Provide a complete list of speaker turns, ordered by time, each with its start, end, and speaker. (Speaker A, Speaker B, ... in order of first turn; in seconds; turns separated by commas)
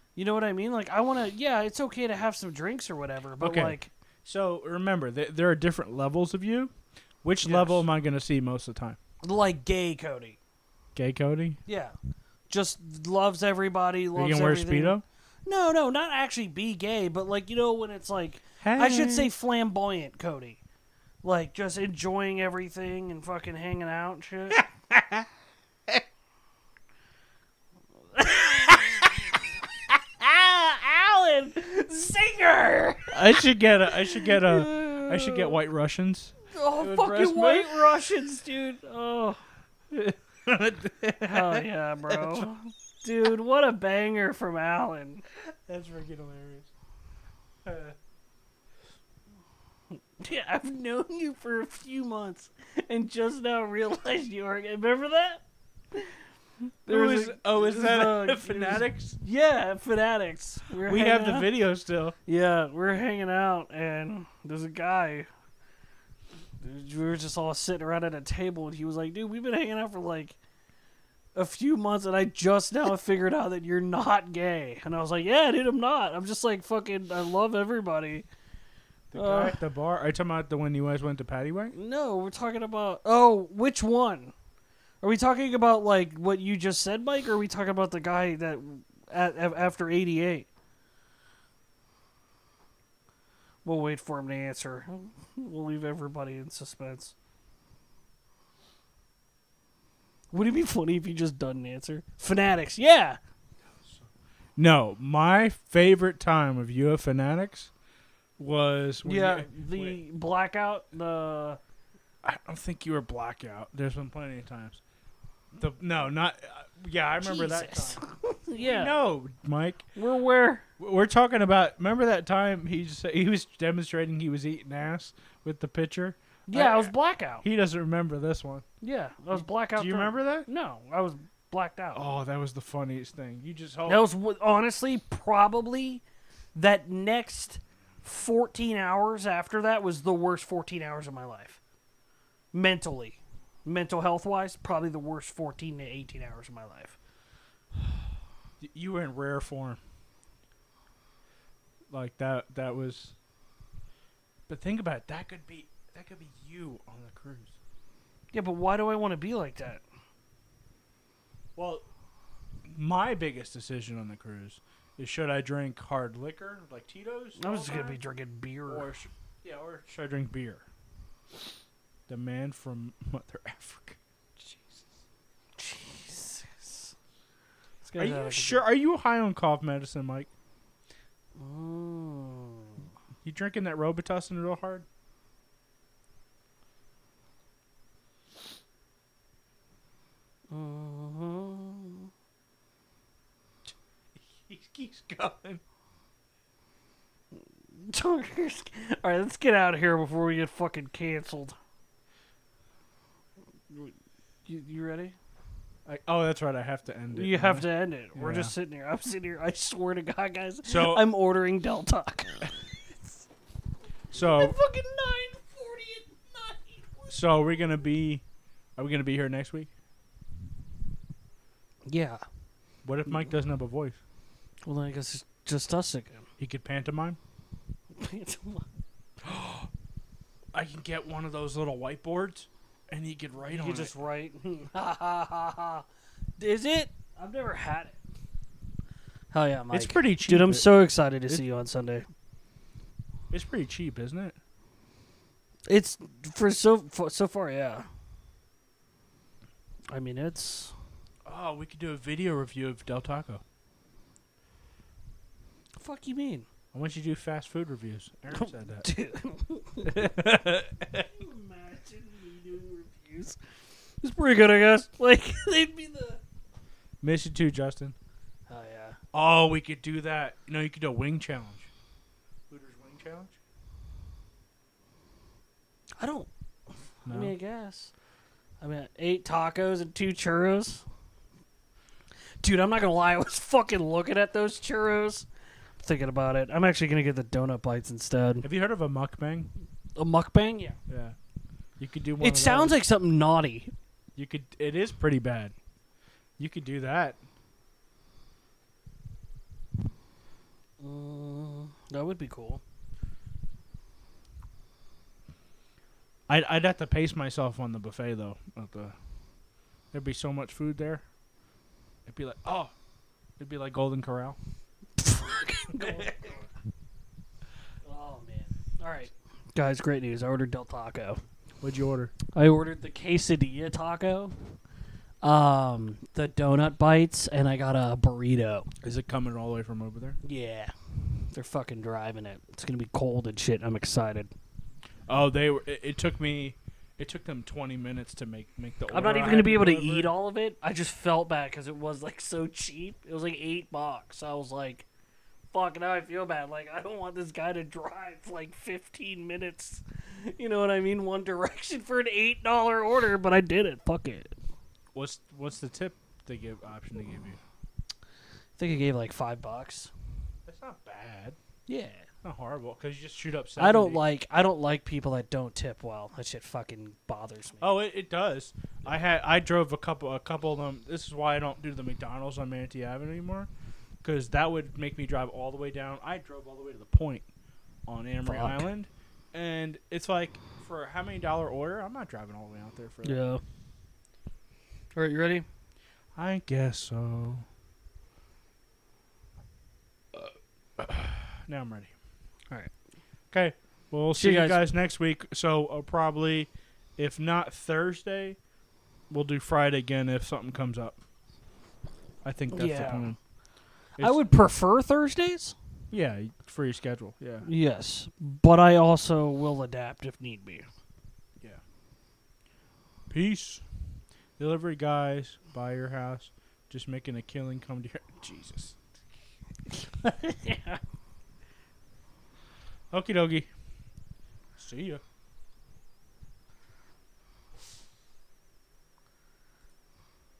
Speaker A: 0.1-3.9, Speaker B: 3.4-6.7, Speaker B: 7.2-9.0, Speaker A: 7.4-7.8, Speaker A: 9.2-10.4, Speaker B: 10.9-11.6, Speaker A: 11.7-11.9, Speaker A: 12.5-20.6, Speaker B: 14.2-15.0, Speaker B: 18.6-19.3, Speaker A: 21.2-24.6, Speaker B: 24.5-25.3, Speaker A: 28.1-29.4, Speaker A: 30.2-35.5, Speaker B: 33.1-37.9, Speaker A: 36.5-39.4, Speaker B: 39.9-42.5, Speaker A: 41.2-45.2, Speaker B: 45.5-46.7, Speaker B: 47.6-47.9, Speaker A: 50.2-56.1, Speaker B: 56.9-59.2, Speaker A: 56.9-61.5, Speaker B: 60.8-62.1, Speaker A: 62.3-65.3, Speaker A: 66.6-70.4, Speaker A: 71.3-78.3, Speaker B: 79.1-81.7, Speaker A: 79.1-79.5, Speaker A: 81.7-84.3, Speaker A: 85.0-90.5, Speaker A: 93.6-97.1, Speaker A: 100.3-103.2, Speaker B: 103.7-107.7, Speaker B: 108.4-110.0, Speaker A: 109.0-111.6, Speaker B: 112.2-114.8, Speaker B: 115.5-118.0, Speaker A: 117.2-118.9, Speaker B: 118.5-119.9, Speaker A: 119.9-120.6, Speaker B: 120.8-128.6, Speaker A: 126.5-127.4, Speaker A: 128.8-132.0, Speaker B: 129.3-130.5, Speaker B: 131.9-134.0, Speaker A: 133.8-136.0, Speaker A: 136.6-141.6, Speaker A: 142.5-147.0, Speaker B: 148.6-149.8, Speaker B: 151.9-153.1, Speaker B: 154.5-157.6, Speaker A: 158.3-159.8, Speaker B: 161.6-161.8, Speaker B: 162.7-168.0, Speaker A: 167.4-168.9, Speaker B: 168.7-170.6, Speaker B: 172.1-174.9, Speaker A: 175.6-176.9, Speaker A: 177.8-178.6, Speaker B: 177.9-180.3, Speaker A: 181.4-182.8, Speaker B: 183.2-184.8, Speaker A: 190.5-192.1, Speaker B: 194.2-195.6, Speaker A: 197.8-201.6, Speaker A: 203.7-203.9, Speaker A: 204.4-205.2, Speaker B: 205.8-208.5, Speaker A: 207.1-212.7, Speaker B: 210.7-211.0, Speaker A: 214.1-217.4, Speaker B: 214.1-214.6, Speaker B: 217.1-218.2, Speaker B: 218.8-219.7, Speaker A: 221.9-222.2, Speaker B: 222.8-224.0, Speaker A: 224.6-226.3, Speaker B: 226.4-227.2, Speaker A: 227.9-228.7, Speaker B: 229.2-229.7, Speaker B: 230.5-233.9, Speaker A: 233.4-235.8, Speaker A: 236.4-238.0, Speaker A: 239.3-242.1, Speaker B: 239.7-240.7, Speaker B: 243.3-244.4, Speaker A: 245.7-247.8, Speaker A: 249.9-250.7, Speaker B: 251.3-253.4, Speaker A: 255.8-256.5, Speaker B: 256.7-258.9, Speaker A: 258.4-260.1, Speaker B: 259.8-261.1, Speaker A: 261.0-263.4, Speaker A: 264.0-266.2, Speaker B: 267.0-267.9, Speaker A: 268.5-269.0, Speaker B: 269.1-271.7, Speaker B: 272.5-273.4, Speaker A: 276.0-276.3, Speaker B: 277.1-277.3, Speaker A: 277.1-277.9, Speaker A: 278.6-280.8, Speaker A: 282.4-285.3, Speaker A: 285.8-288.5, Speaker B: 288.4-289.5, Speaker A: 289.9-290.8, Speaker B: 290.9-291.1, Speaker B: 291.8-292.8, Speaker A: 292.2-293.7, Speaker B: 294.1-295.5, Speaker B: 296.4-297.2, Speaker A: 300.8-302.6, Speaker B: 306.3-308.9, Speaker B: 309.9-311.1, Speaker B: 312.1-312.7, Speaker B: 313.4-314.4, Speaker A: 315.0-316.5, Speaker B: 315.8-316.3, Speaker A: 317.8-321.2, Speaker B: 321.6-322.1, Speaker A: 322.3-324.3, Speaker A: 325.2-328.7, Speaker B: 328.8-330.2, Speaker A: 330.2-334.3, Speaker B: 335.1-340.1, Speaker A: 338.9-344.9, Speaker A: 345.5-354.3, Speaker B: 354.9-357.4, Speaker A: 358.6-359.9, Speaker B: 360.4-361.4, Speaker A: 361.7-362.1, Speaker B: 362.2-364.0, Speaker A: 363.6-367.7, Speaker B: 367.6-373.5, Speaker B: 374.0-377.3, Speaker B: 377.9-383.2, Speaker A: 378.2-378.7, Speaker A: 383.0-383.4, Speaker A: 384.9-385.4, Speaker B: 386.1-387.5, Speaker B: 390.1-391.9, Speaker B: 393.3-398.4, Speaker A: 394.1-394.6, Speaker B: 399.1-401.0, Speaker B: 402.2-403.2, Speaker A: 402.5-403.1, Speaker B: 404.0-404.4, Speaker A: 404.0-405.6, Speaker B: 405.9-407.5, Speaker A: 407.4-410.6, Speaker B: 413.1-413.6, Speaker B: 414.4-418.8, Speaker A: 420.0-420.8, Speaker B: 422.9-423.5, Speaker B: 424.6-425.0